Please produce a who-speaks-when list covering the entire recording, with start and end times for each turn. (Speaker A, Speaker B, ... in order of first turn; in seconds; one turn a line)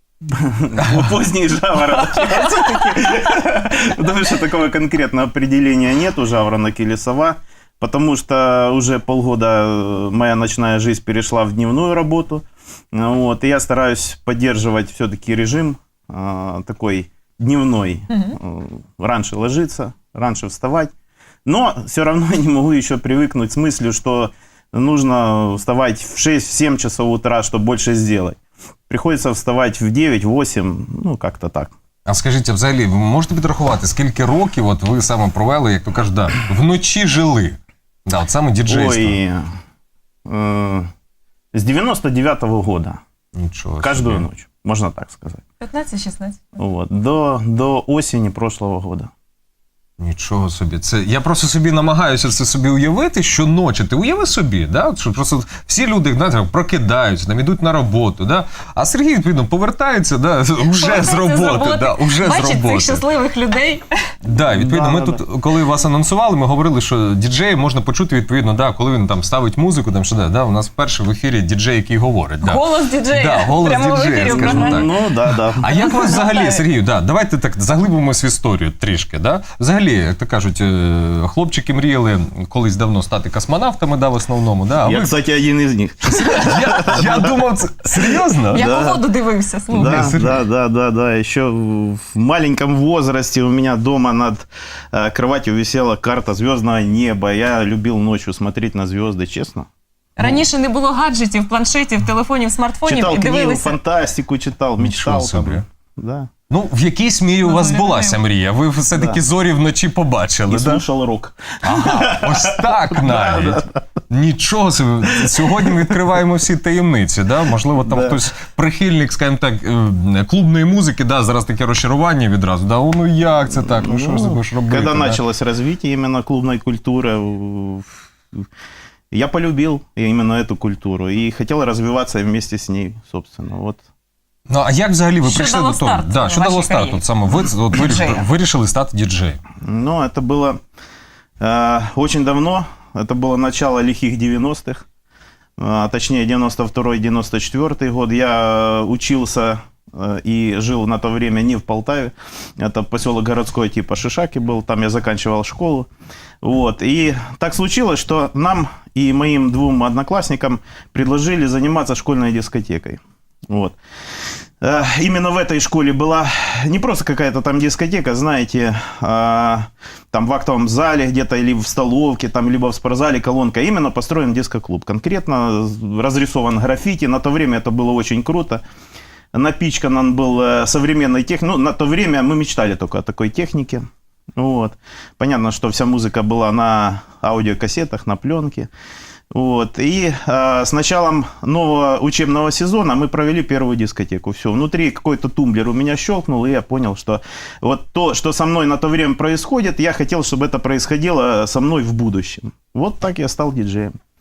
Speaker A: 0.3-20.9
Speaker B: 18.1-18.4
Speaker A: 21.4-31.7
Speaker C: 32.0-39.2
Speaker A: 38.6-39.5
Speaker A: 40.2-40.9
Speaker A: 41.5-43.0
Speaker C: 43.3-44.2
Speaker A: 43.8-45.4
Speaker B: 45.6-46.6
Speaker A: 46.6-49.1
Speaker C: 50.0-63.0
Speaker B: 60.7-63.9
Speaker C: 64.2-85.1
Speaker A: 64.4-65.2
Speaker B: 72.4-74.9
Speaker A: 74.3-75.6
Speaker B: 75.7-76.6
Speaker A: 84.8-87.3
Speaker C: 86.1-88.6
Speaker A: 87.9-89.0
Speaker B: 88.5-90.1
Speaker A: 89.7-99.7
Speaker C: 89.7-90.4
Speaker B: 100.2-103.8
Speaker A: 102.8-106.3
Speaker C: 104.8-105.6
Speaker C: 106.5-110.8
Speaker B: 107.4-108.2
Speaker A: 108.9-109.2
Speaker A: 110.5-113.8
Speaker C: 111.6-125.2
Speaker A: 115.4-115.9
Speaker A: 117.8-118.2
Speaker A: 123.5-128.0
Speaker A: 129.1-133.8
Speaker C: 134.5-139.4
Speaker B: 135.2-138.2
Speaker A: 139.6-140.6
Speaker A: 141.4-144.8
Speaker A: 145.6-155.9
Speaker A: 156.4-163.8
Speaker A: 164.6-178.6
Speaker A: 179.3-183.8
Speaker A: 184.4-188.7
Speaker A: 189.3-203.9